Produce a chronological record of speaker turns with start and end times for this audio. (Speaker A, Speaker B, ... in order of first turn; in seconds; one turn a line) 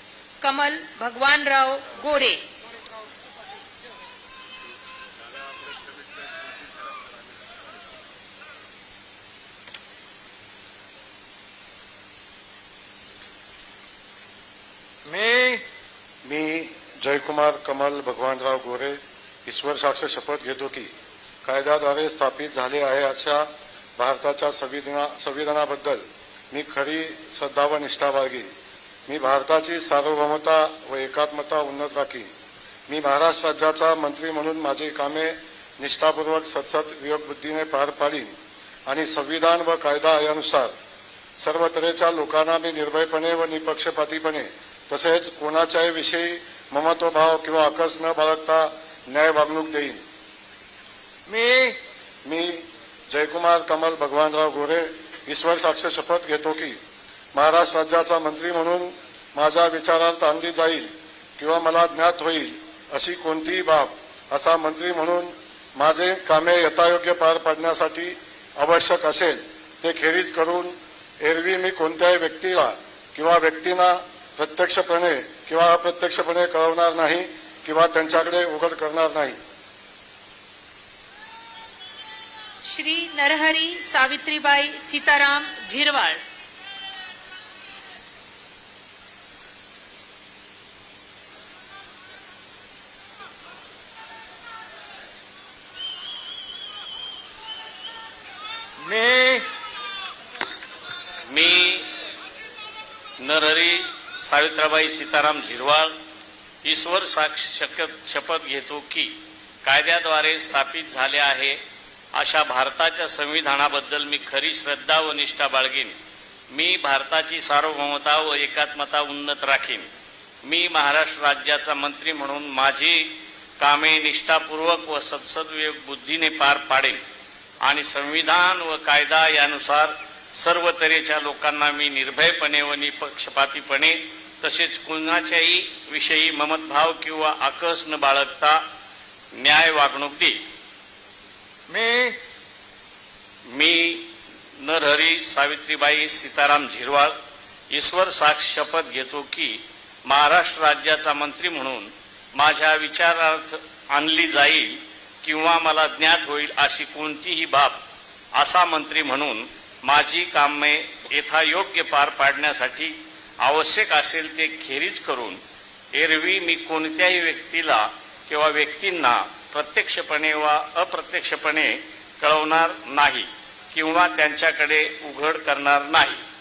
Speaker A: 0.4-2.4
Speaker B: 15.1-15.6
Speaker C: 16.2-20.9
Speaker C: 21.4-28.5
Speaker C: 29.1-32.3
Speaker C: 32.9-38.3
Speaker C: 38.9-40.7
Speaker C: 41.4-50.0
Speaker B: 51.3-51.8
Speaker C: 52.3-56.8
Speaker C: 57.3-79.4
Speaker A: 82.6-86.2
Speaker B: 98.8-99.5
Speaker D: 101.3-101.9
Speaker D: 103.2-105.9
Speaker D: 106.6-109.1
Speaker D: 109.6-111.6
Speaker D: 112.2-116.0
Speaker D: 116.5-119.9
Speaker D: 120.5-127.0
Speaker D: 127.6-138.6
Speaker D: 139.4-140.4
Speaker B: 141.7-142.2
Speaker D: 143.5-144.1
Speaker D: 144.6-147.2
Speaker D: 147.7-157.8
Speaker D: 158.4-165.4
Speaker D: 165.9-176.2